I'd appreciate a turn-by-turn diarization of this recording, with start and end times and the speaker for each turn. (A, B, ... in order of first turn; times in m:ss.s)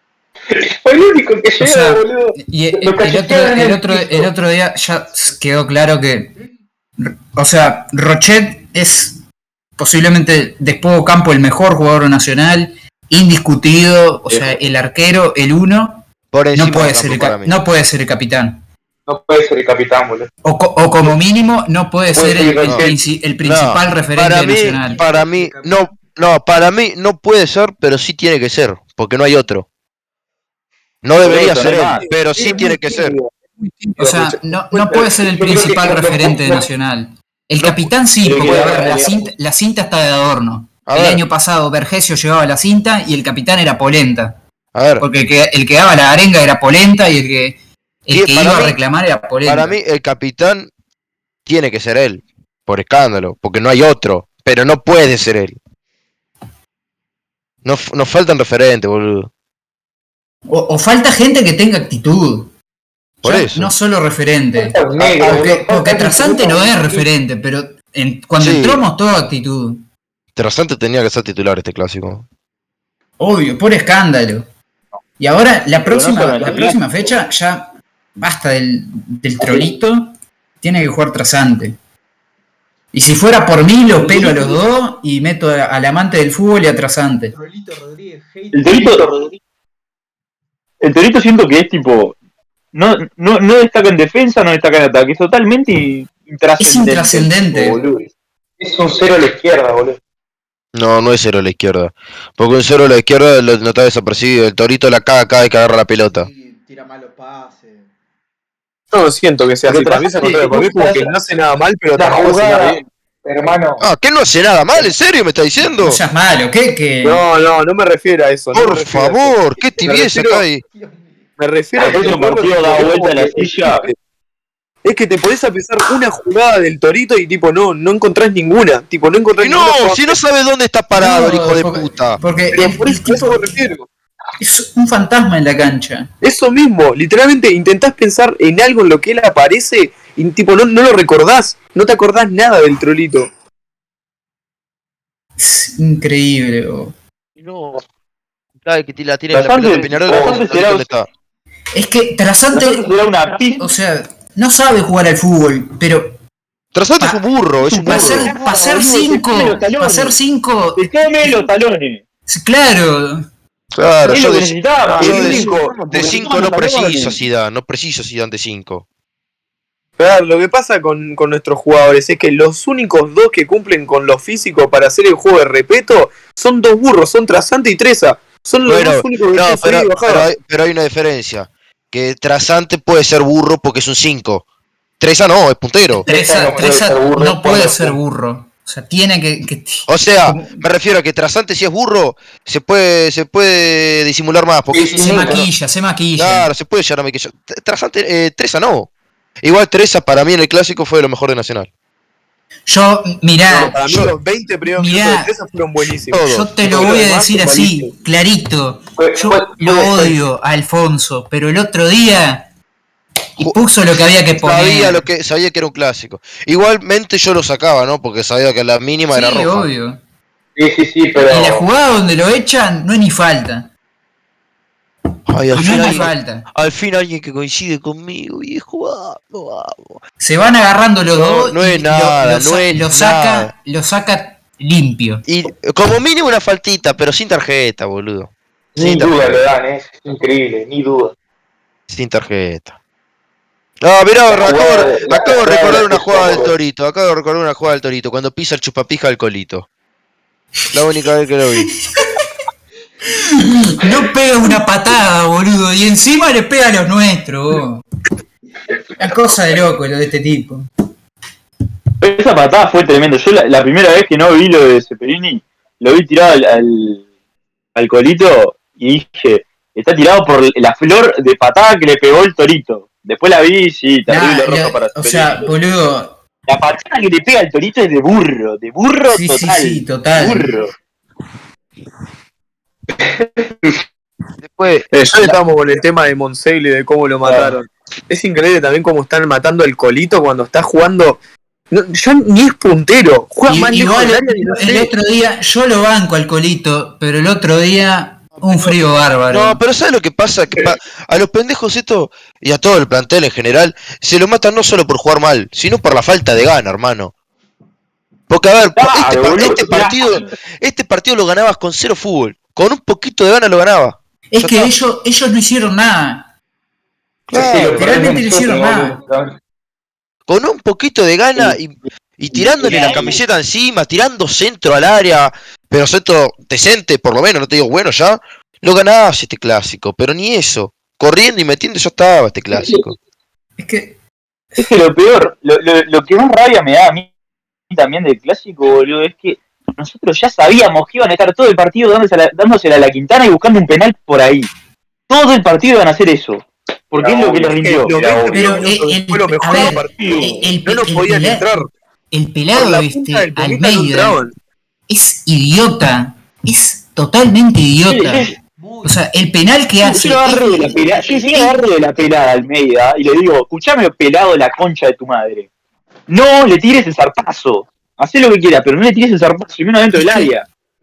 0:00.5-0:04.3 A
0:01.6-0:06.3 B
0:06.4-0:06.6 C
0:07.0-0:09.2 B
0:09.8-0:18.6 B
0:14.3-0:14.6 D
0:16.3-0:17.5 E
0:19.1-0:20.3 A
0:20.4-0:25.0 B
0:22.1-0:23.0 A
0:22.7-0:29.7 E
0:24.6-0:26.0 C
0:31.0-0:33.2 E
0:31.2-0:32.1 D
0:32.0-0:35.2 F
0:34.0-0:44.4 B
0:35.2-0:36.6 A
0:37.6-0:37.9 E
0:38.2-0:39.3 A
0:38.4-0:39.0 D
0:40.9-0:41.2 E
0:44.8-0:45.0 E
0:45.0-0:49.8 B
0:48.1-0:48.8 E
0:49.4-0:50.7 E
0:51.5-0:55.6 E
0:57.6-0:59.3 E
1:00.5-1:02.5 B
1:03.2-1:03.7 E
1:03.2-1:09.9 B
1:04.6-1:07.1 A
1:05.0-1:05.3 E
1:08.4-1:08.8 E
1:10.4-1:12.2 E
1:13.2-1:14.5 B
1:15.2-1:21.8 B
1:15.8-1:16.8 D
1:22.9-1:27.4 B
1:27.3-1:29.1 C
1:28.5-1:29.1 D
1:28.8-1:29.2 A
1:30.8-1:32.2 D
1:32.7-1:37.3 D
1:36.6-1:37.8 B
1:37.5-1:40.0 A
1:40.8-1:46.3 E
1:46.1-1:47.9 C
1:48.9-1:52.8 F
1:49.7-1:51.1 A
1:52.0-1:53.8 A
1:53.8-1:56.0 E
1:55.8-1:57.2 B
1:57.0-2:00.5 F
1:58.5-2:00.6 E
2:00.6-2:01.4 C
2:01.4-2:04.0 F
2:01.8-2:03.9 D
2:04.8-2:10.2 F
2:09.4-2:12.2 E
2:11.0-2:13.5 B
2:12.5-2:13.9 F
2:14.4-2:16.1 B
2:16.2-2:23.3 F
2:25.4-2:27.0 B
2:27.4-2:27.8 E
2:28.6-2:31.1 E
2:29.3-2:30.9 D
2:30.0-2:30.4 A
2:31.8-2:32.9 B
2:32.5-2:33.7 D
2:33.6-2:36.2 B
2:36.7-2:38.3 E
2:37.6-2:40.2 D
2:37.9-2:41.5 B
2:40.8-2:42.0 D
2:42.3-2:43.3 B
2:43.7-2:48.8 E
2:44.1-2:47.2 D
2:45.0-2:46.2 F
2:45.0-2:45.5 A
2:50.0-3:00.3 F
2:58.6-3:04.4 E
3:05.0-3:06.1 E
3:05.9-3:10.7 B
3:06.1-3:08.0 A
3:09.9-3:15.5 E
3:14.7-3:15.5 A
3:14.9-3:16.5 B
3:16.2-3:18.9 E
3:19.4-3:21.7 E
3:22.7-3:23.9 B
3:23.5-3:27.9 F
3:24.7-3:25.3 B
3:26.1-3:26.6 E
3:26.2-3:32.5 B
3:29.0-3:29.8 A
3:29.7-3:30.1 F
3:33.4-3:35.1 B
3:33.4-3:39.7 E
3:39.1-3:40.0 B
3:40.6-3:41.6 A
3:41.3-3:43.7 B
3:45.3-3:50.0 E
3:45.5-3:46.4 B
3:50.2-3:55.2 B
3:51.1-3:53.5 E
3:55.3-3:59.5 E
3:58.8-4:01.2 A
4:01.9-4:02.8 E
4:03.8-4:09.7 E
4:04.3-4:06.5 A
4:10.7-4:11.7 E
4:13.2-4:17.8 B
4:19.0-4:20.7 B
4:22.0-4:27.0 D
4:27.8-4:35.5 D
4:34.1-4:36.2 B
4:36.5-4:40.7 D
4:39.1-4:40.5 B
4:43.0-4:43.8 A
4:44.4-4:45.3 E
4:44.9-4:51.2 F
4:51.7-4:54.9 F
4:53.5-4:59.6 B
4:59.3-5:07.1 E
5:08.3-5:14.7 E
5:08.8-5:10.3 D
5:14.3-5:16.3 B
5:17.3-5:17.9 E
5:17.3-5:19.3 A
5:17.7-5:19.0 B
5:20.3-5:33.0 E
5:22.6-5:23.1 D
5:22.6-5:23.1 A
5:33.6-5:34.0 B
5:34.6-5:37.1 D
5:37.7-5:44.5 D
5:45.1-5:48.0 D
5:47.0-5:48.5 A
5:47.6-5:51.7 F
5:48.3-5:51.6 B
5:49.5-5:50.4 D
5:52.1-5:54.2 B
5:52.5-5:54.4 F
5:54.9-6:01.6 B
5:57.9-5:58.4 D
5:58.6-5:59.0 C
5:59.8-6:05.5 D
6:06.1-6:10.5 D
6:10.0-6:10.3 B